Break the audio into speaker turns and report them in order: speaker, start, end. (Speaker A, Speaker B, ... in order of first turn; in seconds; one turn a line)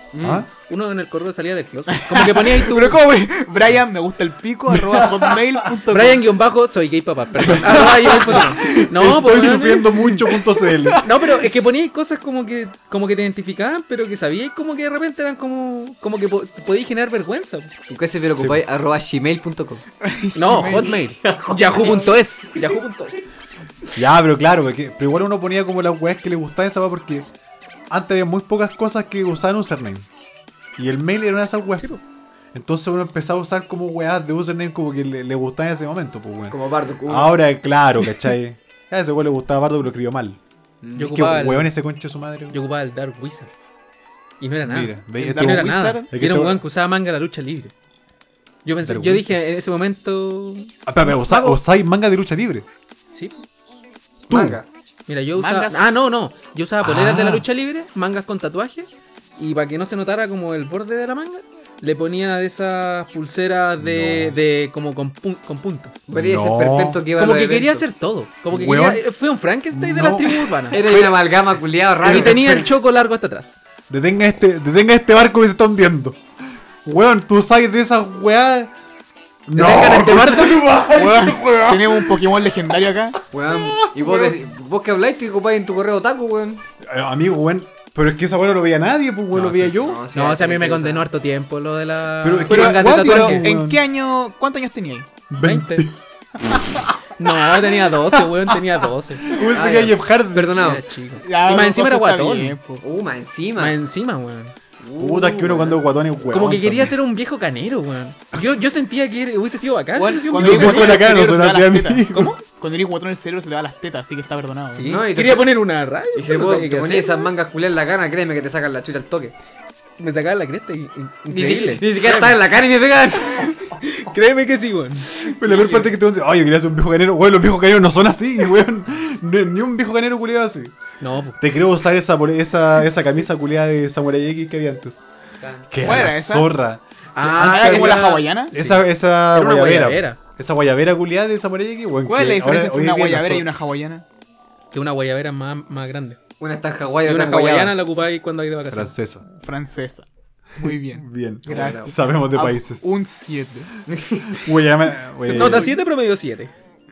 Speaker A: 0.1-0.5
Speaker B: 0.2-0.5
Speaker C: 0.5-3.0
Speaker D: 1.9-6.3
Speaker B: 4.8-5.3
Speaker C: 5.9-10.1
Speaker B: 7.4-11.0
Speaker D: 7.6-8.9
Speaker D: 9.9-11.5
Speaker C: 11.0-17.7
Speaker A: 17.9-19.8
Speaker D: 20.0-21.0
Speaker C: 20.3-23.2
Speaker A: 21.2-22.8
Speaker B: 23.9-27.3
Speaker B: 27.9-30.1
Speaker B: 30.8-32.0
Speaker B: 32.5-40.4
Speaker A: 36.5-37.4
Speaker A: 40.8-41.2
Speaker C: 41.0-41.7
Speaker B: 41.0-42.6
Speaker C: 42.5-43.5
Speaker C: 44.4-47.7
Speaker B: 44.6-46.6
Speaker D: 45.2-46.1
Speaker C: 48.6-50.7
Speaker B: 48.8-49.3
Speaker B: 50.9-52.7
Speaker D: 51.1-51.6
Speaker A: 54.3-54.6
Speaker B: 54.3-54.6
Speaker C: 55.1-66.0
Speaker D: 55.3-55.8
Speaker B: 56.8-57.5
Speaker B: 63.8-64.4
Speaker A: 66.1-67.8
Speaker B: 66.1-67.0
Speaker C: 67.2-70.8
Speaker B: 68.5-69.0
Speaker B: 69.7-72.7
Speaker A: 70.7-72.7
Speaker C: 72.0-73.6
Speaker B: 73.9-76.2
Speaker B: 76.8-78.7
Speaker B: 79.5-82.2
Speaker A: 79.6-80.5
Speaker C: 79.6-80.6
Speaker D: 80.9-83.1
Speaker A: 83.3-86.6
Speaker B: 83.5-84.4
Speaker B: 86.8-90.0
Speaker A: 89.3-91.1
Speaker C: 90.1-93.5
Speaker B: 92.2-93.8
Speaker D: 92.5-95.1
Speaker B: 95.3-96.9
Speaker C: 95.4-95.8
Speaker C: 97.2-99.4
Speaker B: 99.2-100.6
Speaker A: 99.3-100.8
Speaker C: 100.5-102.6
Speaker D: 101.2-102.8
Speaker A: 102.8-103.7
Speaker C: 103.6-104.5
Speaker A: 104.8-105.8
Speaker B: 105.0-107.0
Speaker C: 106.3-111.1
Speaker D: 110.0-114.9
Speaker B: 110.3-112.4
Speaker C: 112.1-112.4
Speaker C: 114.7-117.3
Speaker A: 114.8-115.6
Speaker A: 116.1-119.3
Speaker C: 120.0-122.4
Speaker A: 121.3-123.6
Speaker C: 123.7-125.1
Speaker B: 125.2-130.7
Speaker A: 125.4-125.9
Speaker C: 131.0-131.4
Speaker B: 131.4-135.0
Speaker A: 135.4-135.7
Speaker B: 135.7-143.5
Speaker D: 135.8-136.5
Speaker C: 137.1-140.2
Speaker D: 137.2-138.5
Speaker D: 142.0-144.0
Speaker C: 144.7-146.2
Speaker A: 146.4-147.8
Speaker C: 147.1-148.9
Speaker B: 148.7-149.2
Speaker D: 149.3-150.1
Speaker D: 150.6-153.7
Speaker B: 150.7-152.8
Speaker A: 151.5-151.9
Speaker A: 153.9-154.5
Speaker B: 154.3-155.7
Speaker D: 155.2-155.8
Speaker C: 155.3-156.5